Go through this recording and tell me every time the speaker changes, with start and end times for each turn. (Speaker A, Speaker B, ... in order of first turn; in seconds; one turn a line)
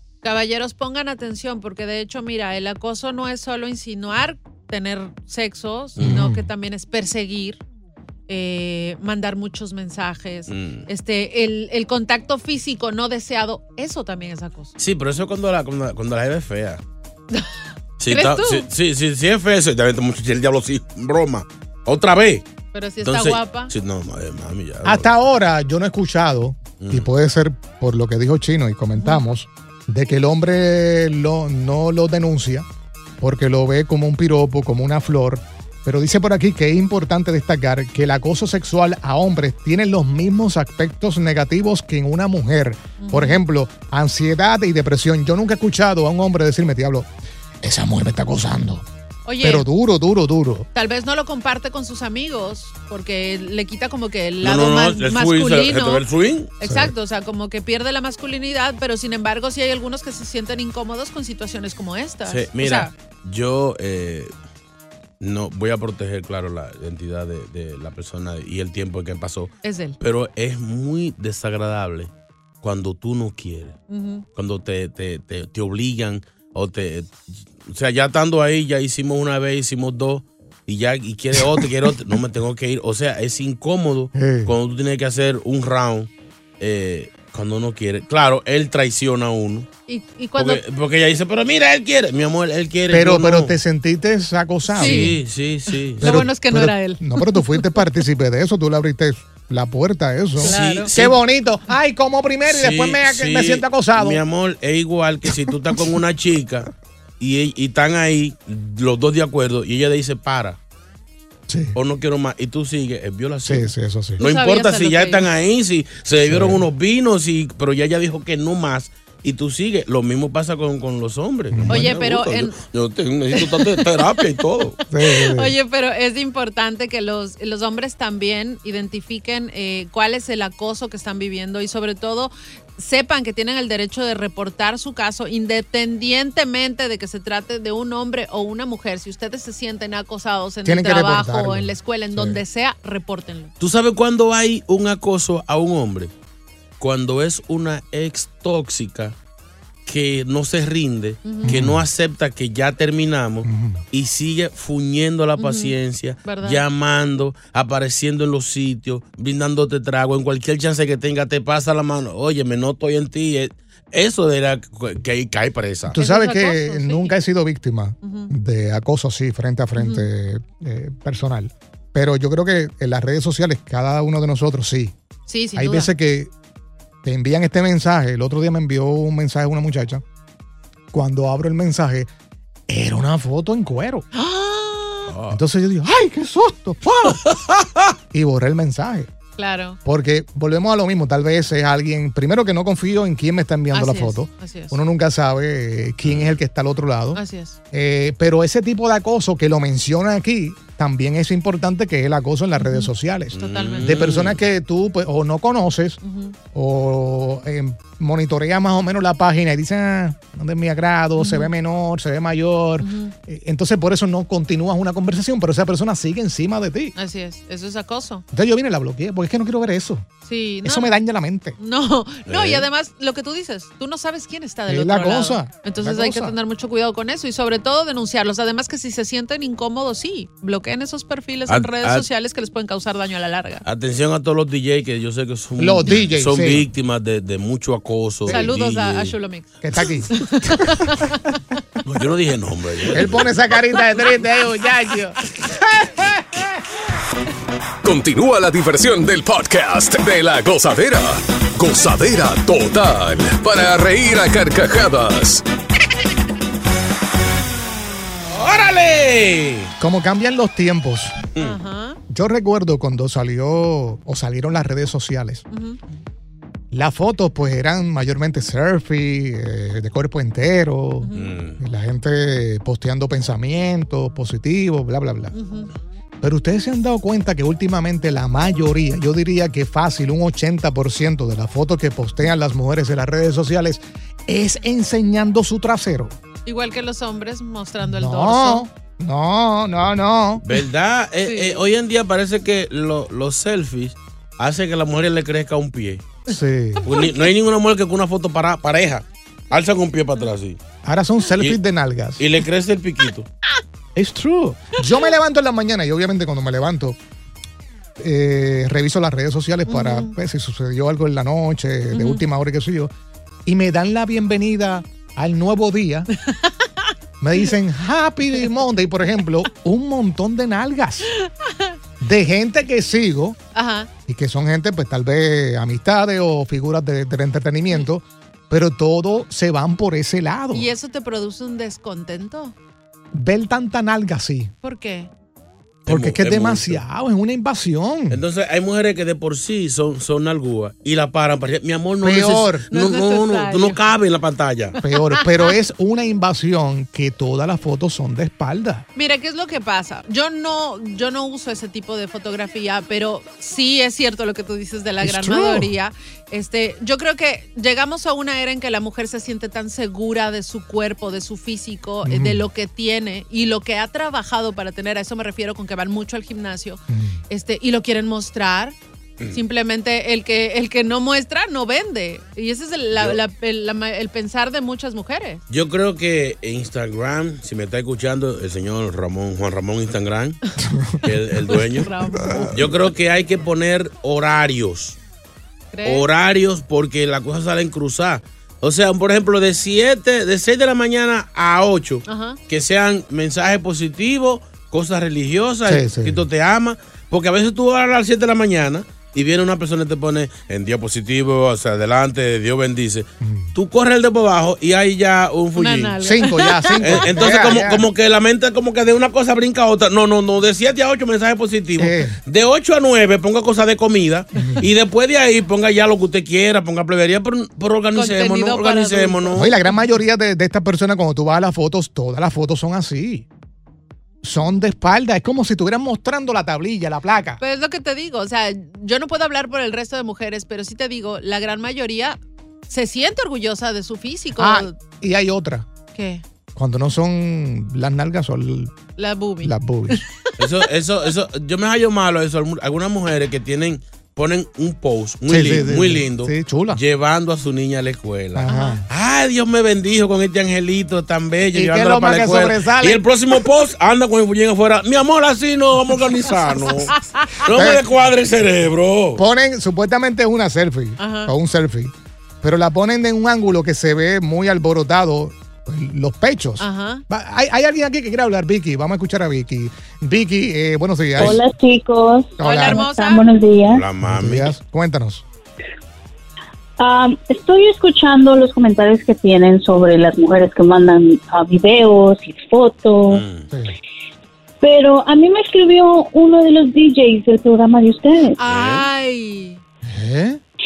Speaker A: 0.2-7.6
Speaker B: 6.0-6.3
Speaker C: 6.0-6.5
Speaker A: 8.3-14.7
Speaker B: 10.5-10.9
Speaker B: 14.8-16.8
Speaker B: 18.0-22.4
Speaker A: 18.0-18.7
Speaker A: 22.7-23.7
Speaker B: 23.0-25.1
Speaker C: 24.8-32.7
Speaker B: 26.8-27.1
Speaker C: 33.2-47.1
Speaker A: 43.0-43.4
Speaker C: 47.6-48.9
Speaker A: 49.2-49.6
Speaker C: 49.4-50.7
Speaker A: 50.7-56.0
Speaker B: 54.4-56.5
Speaker A: 56.6-62.9
Speaker C: 56.6-56.9
Speaker B: 62.2-64.3
Speaker B: 65.2-72.1
Speaker A: 69.6-70.0
Speaker B: 72.6-73.8
Speaker A: 73.9-74.2
Speaker B: 74.3-89.7
Speaker C: 84.2-84.5
Speaker A: 89.9-90.6
Speaker B: 90.3-93.5
Speaker C: 92.9-95.2
Speaker B: 94.7-96.3
Speaker A: 94.8-95.2
Speaker A: 96.0-97.8
Speaker C: 96.0-104.2
Speaker B: 100.4-101.2
Speaker A: 100.4-100.9
Speaker B: 102.5-110.6
Speaker C: 111.5-111.8
Speaker B: 111.7-124.8
Speaker C: 113.5-114.2
Speaker A: 114.2-115.3
Speaker C: 116.2-116.6
Speaker C: 121.5-122.0
Speaker A: 121.7-122.6
Speaker A: 123.3-123.9
Speaker A: 124.9-143.5
Speaker C: 124.9-125.5
Speaker C: 140.6-142.4
Speaker B: 143.6-146.1
Speaker B: 146.8-149.1
Speaker B: 149.8-166.0
Speaker A: 151.2-151.6
Speaker C: 151.4-151.8
Speaker C: 153.4-153.8
Speaker A: 155.4-156.6
Speaker C: 165.9-174.9
Speaker A: 165.9-167.2
Speaker A: 168.0-168.3
Speaker A: 169.8-170.1
Speaker A: 175.3-175.9
Speaker C: 175.5-176.3
Speaker C: 177.0-180.0
Speaker C: 180.9-182.1
Speaker C: 182.7-184.1
Speaker A: 184.1-185.1
Speaker B: 185.1-185.4
Speaker C: 185.3-187.2
Speaker B: 187.2-187.8
Speaker C: 188.1-189.1
Speaker A: 189.4-189.8
Speaker C: 189.8-206.0
Speaker A: 193.7-194.8
Speaker B: 196.0-196.4
Speaker A: 197.1-197.6
Speaker A: 202.6-204.2
Speaker B: 203.3-204.4
Speaker A: 206.0-206.3
Speaker C: 206.5-216.9
Speaker A: 211.2-211.5
Speaker A: 212.8-213.1
Speaker A: 217.0-218.2
Speaker C: 218.3-220.1
Speaker A: 220.2-221.0
Speaker C: 220.6-221.6
Speaker A: 221.6-233.6
Speaker B: 222.3-222.7
Speaker C: 224.7-226.3
Speaker B: 231.5-232.1
Speaker B: 233.6-239.2
Speaker C: 235.6-236.7
Speaker A: 238.2-239.6
Speaker C: 238.3-238.5
Speaker C: 239.6-240.8
Speaker A: 240.1-241.2
Speaker B: 241.8-243.3
Speaker C: 242.9-246.5
Speaker D: 247.8-255.4
Speaker B: 258.3-259.7
Speaker C: 259.8-261.2
Speaker A: 261.4-262.0
Speaker C: 262.1-265.4
Speaker A: 265.5-265.8
Speaker C: 266.7-275.3
Speaker A: 271.0-271.3
Speaker B: 271.1-271.6
Speaker A: 275.3-275.7
Speaker C: 276.2-286.1
Speaker A: 286.4-288.6
Speaker C: 287.8-290.4
Speaker B: 290.4-296.1
Speaker A: 291.2-291.6
Speaker C: 296.3-296.9
Speaker A: 296.8-297.3
Speaker B: 296.8-300.6
Speaker C: 300.8-302.2
Speaker B: 302.2-303.3
Speaker C: 303.9-307.0
Speaker C: 308.0-312.9
Speaker A: 309.7-310.1
Speaker A: 311.9-312.2
Speaker C: 313.4-316.1
Speaker A: 316.1-316.9
Speaker C: 317.2-321.1
Speaker A: 321.1-321.8
Speaker C: 322.0-323.4
Speaker A: 323.5-323.9
Speaker C: 324.1-330.7
Speaker A: 330.5-332.5
Speaker C: 333.1-334.5
Speaker A: 334.6-335.1
Speaker B: 335.9-336.8
Speaker C: 335.9-338.2
Speaker B: 338.1-344.8
Speaker C: 342.0-342.7
Speaker A: 342.7-343.8
Speaker A: 344.8-345.5
Speaker C: 344.8-348.9
Speaker A: 348.9-375.4
Speaker C: 355.0-355.7
Speaker C: 362.0-362.4
Speaker C: 366.9-367.2
Speaker B: 372.9-373.2
Speaker B: 375.5-380.4
Speaker C: 380.7-381.0
Speaker B: 381.0-381.9
Speaker A: 381.5-382.6
Speaker C: 382.1-382.6
Speaker B: 382.5-385.0
Speaker A: 385.7-386.1
Speaker B: 385.8-406.0
Speaker A: 392.1-392.4
Speaker C: 395.6-396.2
Speaker C: 403.2-403.5
Speaker A: 405.5-407.5
Speaker C: 406.0-407.9
Speaker B: 406.8-419.5
Speaker C: 411.8-412.2
Speaker C: 414.4-414.6
Speaker A: 417.9-419.7
Speaker C: 419.3-423.2
Speaker C: 424.2-427.4
Speaker A: 427.4-432.2
Speaker A: 432.7-434.8
Speaker C: 434.4-435.7
Speaker A: 435.9-436.2
Speaker C: 436.5-438.8
Speaker A: 439.0-440.4
Speaker C: 439.4-440.0
Speaker B: 440.4-459.2
Speaker C: 445.3-446.8
Speaker C: 448.3-448.9
Speaker A: 448.5-448.8
Speaker C: 451.5-453.1
Speaker A: 456.9-457.4
Speaker C: 457.5-457.8
Speaker C: 459.1-471.4
Speaker A: 461.0-461.3
Speaker A: 466.6-467.0
Speaker B: 471.1-471.4
Speaker E: 471.2-473.8
Speaker C: 472.4-472.8
Speaker A: 472.4-473.2
Speaker B: 473.7-474.5
Speaker C: 474.0-475.2
Speaker E: 476.8-483.2
Speaker B: 483.1-483.4
Speaker E: 484.6-488.4
Speaker A: 488.4-489.6
Speaker B: 488.4-488.9
Speaker C: 489.8-490.4